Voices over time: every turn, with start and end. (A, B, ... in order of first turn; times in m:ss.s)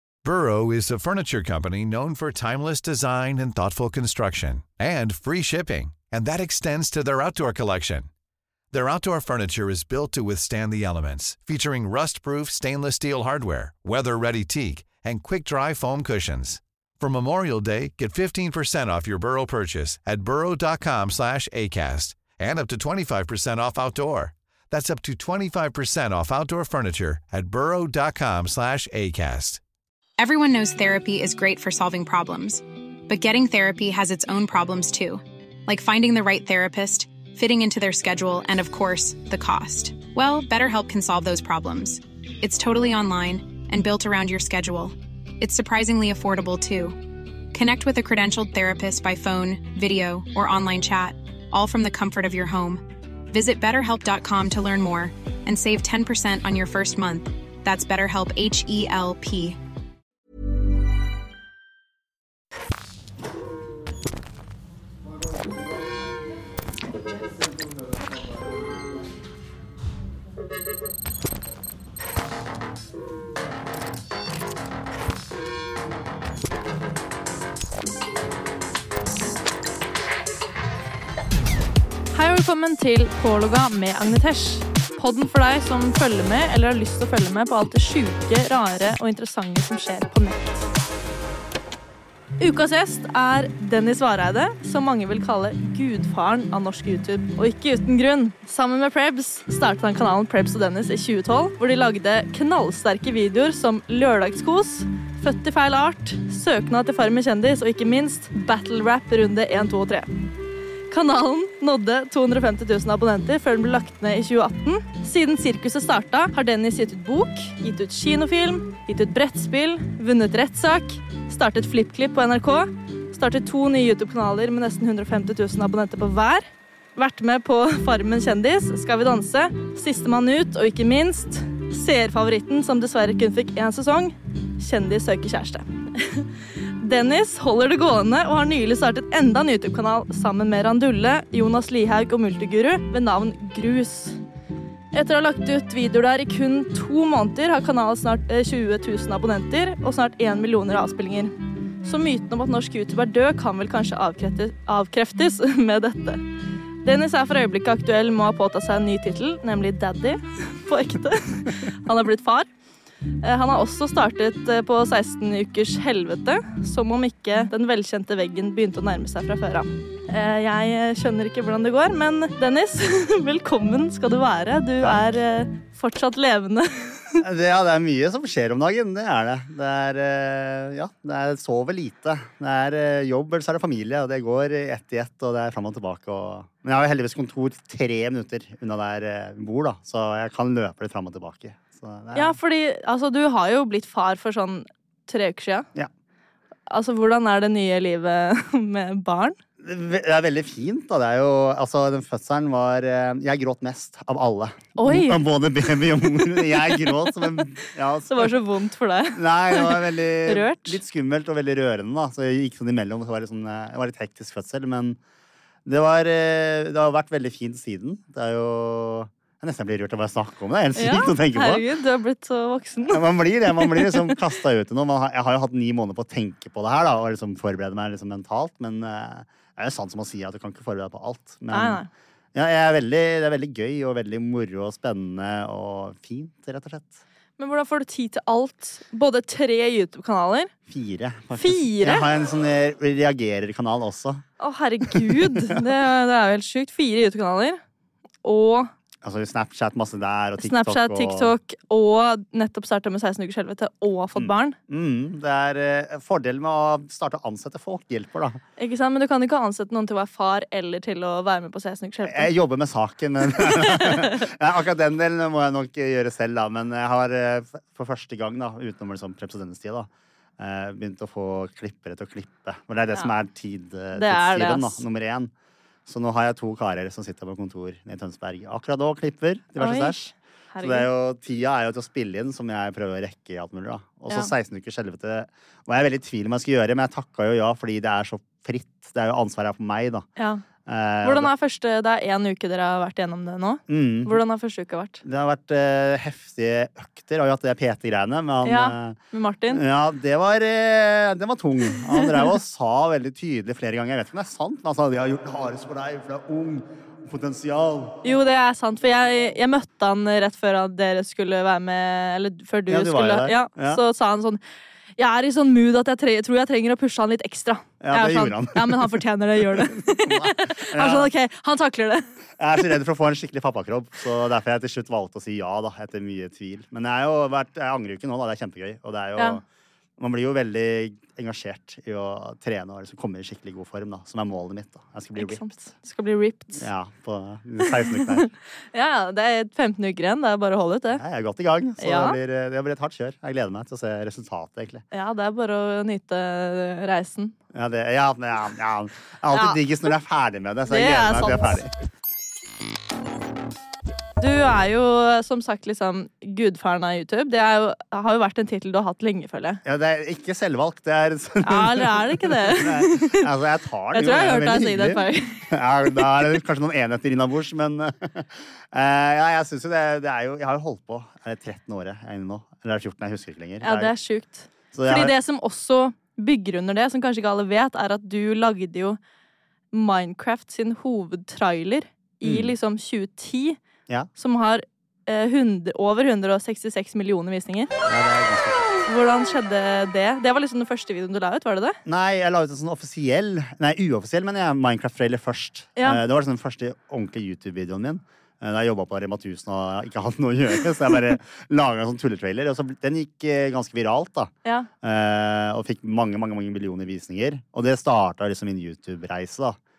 0:00.2-0:08.1 A
0:08.7-0:29.6 A
0:30.2-0:47.0 B
0:47.5-0:59.6 B
1:22.1-1:30.7 C
1:32.4-1:50.1 C
1:50.9-2:16.3 C
2:16.8-2:24.2 C
2:24.9-2:31.3 C
2:31.8-2:36.2 C
2:36.8-2:42.5 C
2:43.2-2:57.2 C
2:57.2-3:12.4 D
3:12.1-3:15.7 C
3:16.7-3:19.4 C
3:19.6-3:28.3 D
3:24.8-3:25.2 C
3:26.5-3:27.1 C
3:28.1-3:30.8 C
3:29.1-3:35.0 D
3:35.6-3:41.6 D
3:40.8-3:44.2 C
3:42.9-3:51.8 D
3:51.5-3:51.9 C
3:52.3-3:57.0 D
3:57.4-4:00.5 C
4:00.7-4:04.2 D
4:01.3-4:02.1 C
4:04.4-4:07.6 C
4:04.9-4:05.6 D
4:08.2-4:08.7 C
4:09.0-4:11.3 D
4:10.4-4:14.6 C
4:14.2-4:18.4 D
4:18.6-4:22.3 C
4:22.0-4:35.3 D
4:23.3-4:24.2 C
4:34.0-4:34.8 C
4:35.8-4:40.0 D
4:39.6-4:40.9 C
4:40.6-4:50.0 D
4:50.2-4:50.4 C
4:50.6-4:51.3 D
4:51.0-4:55.0 C
4:53.7-4:54.2 D
4:55.0-4:59.0 D
4:58.4-4:59.6 C
4:59.5-5:08.0 D
5:08.0-5:14.4 C
5:12.7-5:13.8 D
5:15.0-5:22.1 C
5:17.8-5:21.1 D
5:22.4-5:29.4 D
5:30.0-5:35.4 D
5:35.2-5:36.6 C
5:36.5-5:38.3 D
5:37.6-5:41.0 C
5:40.9-5:44.8 D
5:41.8-5:42.2 C
5:44.9-5:47.3 C
5:47.5-5:51.7 D
5:49.3-5:49.6 C
5:50.7-5:51.6 C
5:54.2-5:59.6 C
5:59.6-6:13.9 D
6:01.4-6:03.2 C
6:03.9-6:05.5 C
6:13.6-6:19.0 C
6:14.7-6:15.1 D
6:19.7-6:23.6 C
6:22.2-6:22.5 D
6:24.2-6:27.7 C
6:27.8-6:28.7 D
6:28.8-6:31.8 C
6:31.8-6:49.6 D